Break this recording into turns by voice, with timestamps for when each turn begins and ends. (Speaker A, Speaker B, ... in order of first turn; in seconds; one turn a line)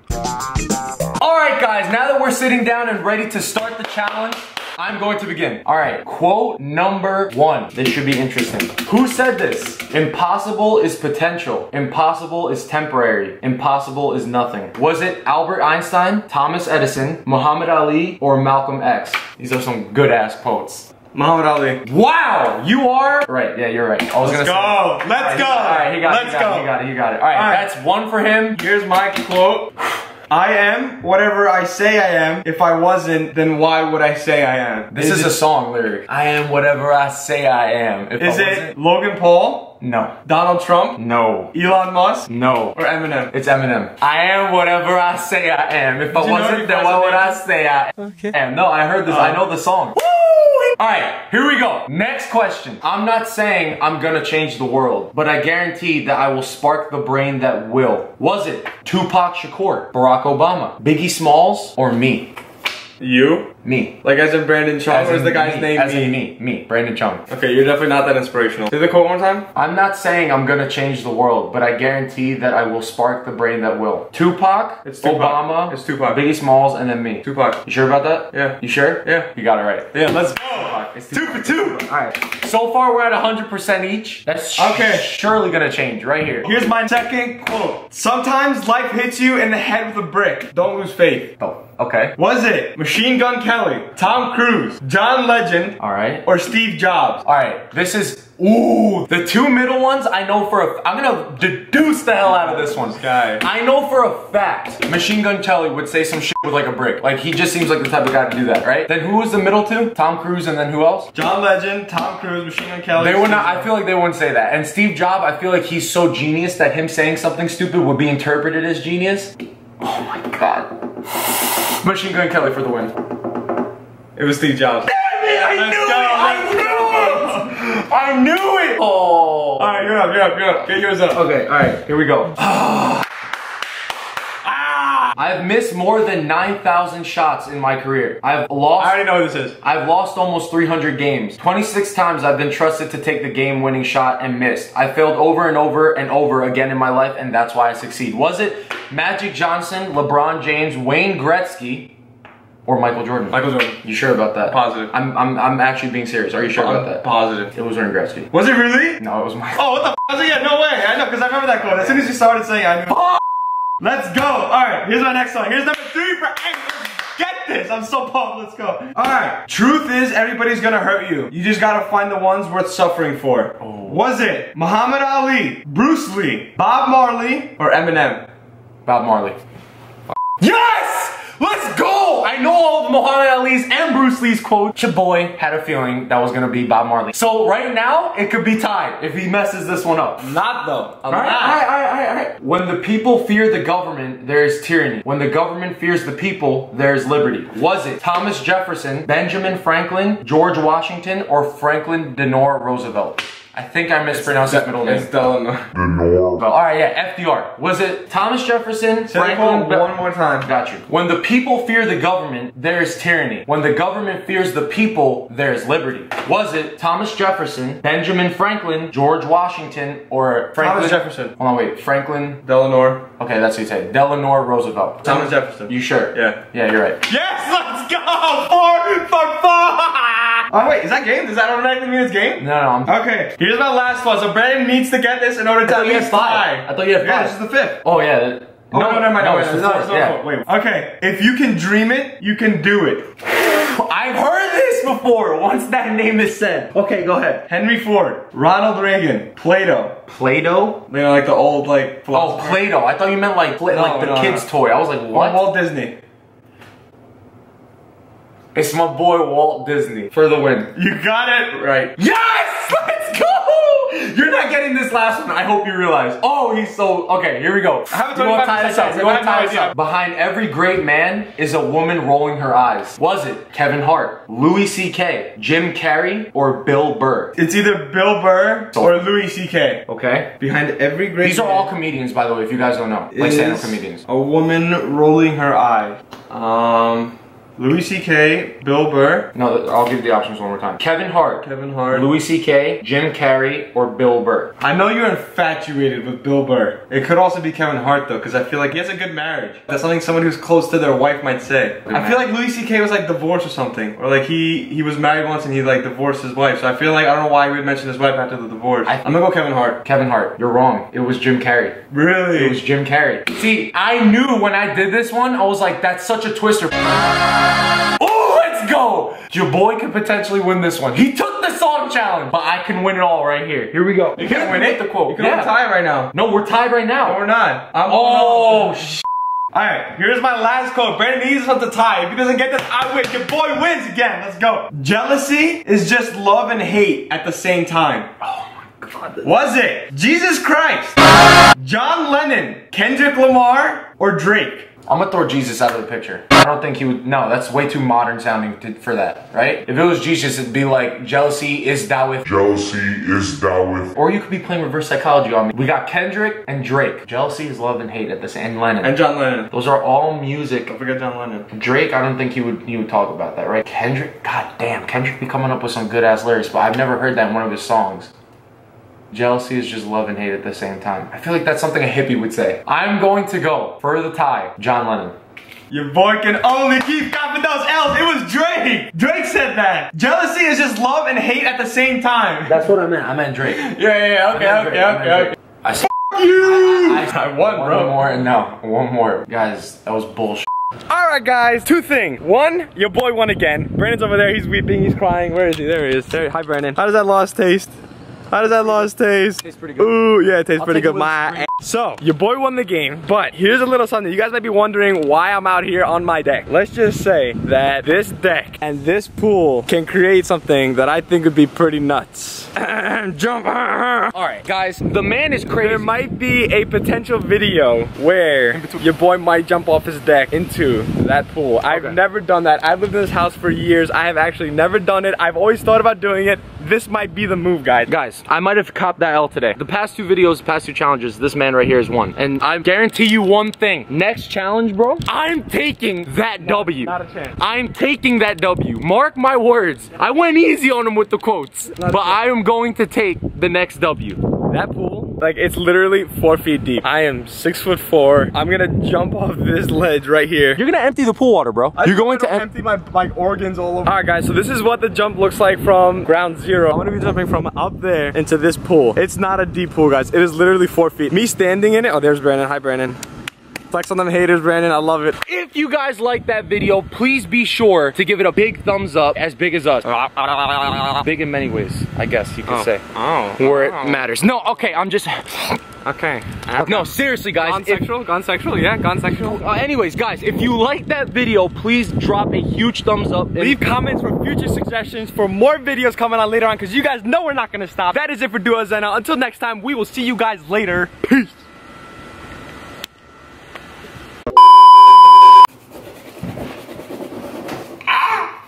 Speaker A: 1.2-20.9
Speaker B: 21.1-21.8
Speaker A: 21.8-28.6
Speaker B: 24.2-26.7
Speaker B: 27.3-27.6
Speaker B: 28.6-29.7
Speaker B: 30.3-35.4
Speaker A: 34.9-38.7
Speaker B: 38.2-41.0
Speaker A: 39.8-40.1
Speaker A: 41.0-41.5
Speaker B: 41.5-43.3
Speaker A: 42.3-50.1
Speaker B: 46.1-47.4
Speaker B: 48.0-48.3
Speaker B: 49.1-49.4
Speaker B: 50.1-50.7
Speaker A: 50.8-62.4
Speaker B: 63.0-63.5
Speaker A: 63.6-64.0
Speaker B: 64.0-66.2
Speaker A: 64.9-67.2
Speaker B: 67.3-69.5
Speaker A: 69.5-86.6
Speaker B: 74.8-76.2
Speaker B: 77.2-77.6
Speaker B: 78.3-79.3
Speaker B: 79.9-81.8
Speaker B: 84.6-85.0
Speaker B: 86.4-91.3
Speaker A: 91.4-92.2
Speaker B: 92.2-97.2
Speaker A: 95.8-96.2
Speaker A: 97.2-111.1
Speaker B: 102.2-103.4
Speaker B: 111.1-113.7
Speaker A: 113.0-120.7
Speaker A: 121.2-122.9
Speaker B: 124.2-127.5
Speaker A: 124.8-129.9
Speaker B: 129.6-131.2
Speaker A: 131.1-132.6
Speaker B: 132.5-133.0
Speaker B: 134.4-135.2
Speaker A: 135.1-139.0
Speaker B: 138.8-139.6
Speaker A: 139.6-151.9
Speaker A: 152.7-158.3
Speaker B: 153.3-153.8
Speaker B: 154.4-154.9
Speaker B: 156.6-157.5
Speaker B: 158.3-159.0
Speaker A: 159.0-159.8
Speaker B: 159.6-163.1
Speaker A: 161.6-162.0
Speaker B: 163.8-178.2
Speaker A: 173.6-174.0
Speaker A: 178.8-179.3
Speaker A: 180.4-190.3
Speaker B: 190.2-191.6
Speaker A: 191.1-205.1
Speaker B: 204.1-205.7
Speaker C: 205.7-206.4
Speaker A: 206.4-209.9
Speaker B: 209.1-210.5
Speaker A: 210.4-222.4
Speaker B: 220.6-221.3
Speaker B: 222.4-223.0
Speaker A: 223.2-227.0
Speaker B: 225.0-226.4
Speaker B: 227.0-237.8
Speaker A: 232.4-232.9
Speaker A: 235.6-240.2
Speaker B: 238.7-243.1
Speaker A: 243.2-247.4
Speaker B: 247.5-250.0
Speaker A: 250.1-250.8
Speaker B: 250.9-252.6
Speaker A: 252.1-255.4
Speaker B: 253.7-254.4
Speaker B: 255.1-256.0
Speaker A: 258.5-260.7
Speaker B: 260.7-261.9
Speaker A: 261.9-277.3
Speaker B: 267.9-269.7
Speaker B: 277.4-279.8
Speaker A: 278.7-279.0
Speaker A: 279.9-280.3
Speaker B: 280.4-281.7
Speaker A: 281.2-284.0
Speaker B: 283.1-289.3
Speaker A: 289.3-294.5
Speaker B: 291.4-292.1
Speaker B: 294.6-309.8
Speaker A: 301.8-302.2
Speaker A: 308.9-309.1
Speaker A: 309.8-311.8
Speaker B: 311.9-312.6
Speaker A: 312.3-316.9
Speaker A: 318.0-325.5
Speaker B: 324.2-326.1
Speaker A: 326.1-327.2
Speaker B: 327.0-328.9
Speaker A: 327.9-329.0
Speaker B: 329.5-338.1
Speaker A: 338.2-339.3
Speaker B: 339.2-341.0
Speaker B: 341.5-344.7
Speaker A: 344.9-352.3
Speaker C: 352.2-353.9
Speaker A: 353.9-359.0
Speaker B: 358.8-359.5
Speaker A: 359.5-360.7
Speaker B: 360.7-361.5
Speaker A: 361.5-368.1
Speaker A: 369.1-375.1
Speaker B: 375.7-382.6
Speaker A: 382.5-383.7
Speaker B: 383.5-385.4
Speaker A: 384.3-390.5
Speaker B: 386.0-387.9
Speaker B: 390.9-397.7
Speaker B: 398.3-414.1
Speaker A: 398.5-398.9
Speaker A: 399.4-400.0
Speaker A: 400.6-401.5
Speaker A: 414.1-415.9
Speaker B: 415.6-427.9
Speaker A: 418.5-418.9
Speaker A: 421.7-422.0
Speaker A: 427.9-444.3
Speaker B: 436.4-437.4
Speaker B: 441.8-442.2
Speaker B: 444.5-450.6
Speaker A: 450.6-452.5
Speaker B: 451.8-463.0
Speaker B: 463.7-465.2
Speaker A: 465.2-472.8
Speaker B: 472.5-474.0
Speaker A: 473.4-475.6
Speaker B: 475.8-479.5
Speaker A: 476.5-477.8
Speaker A: 479.1-483.6
Speaker B: 483.4-491.3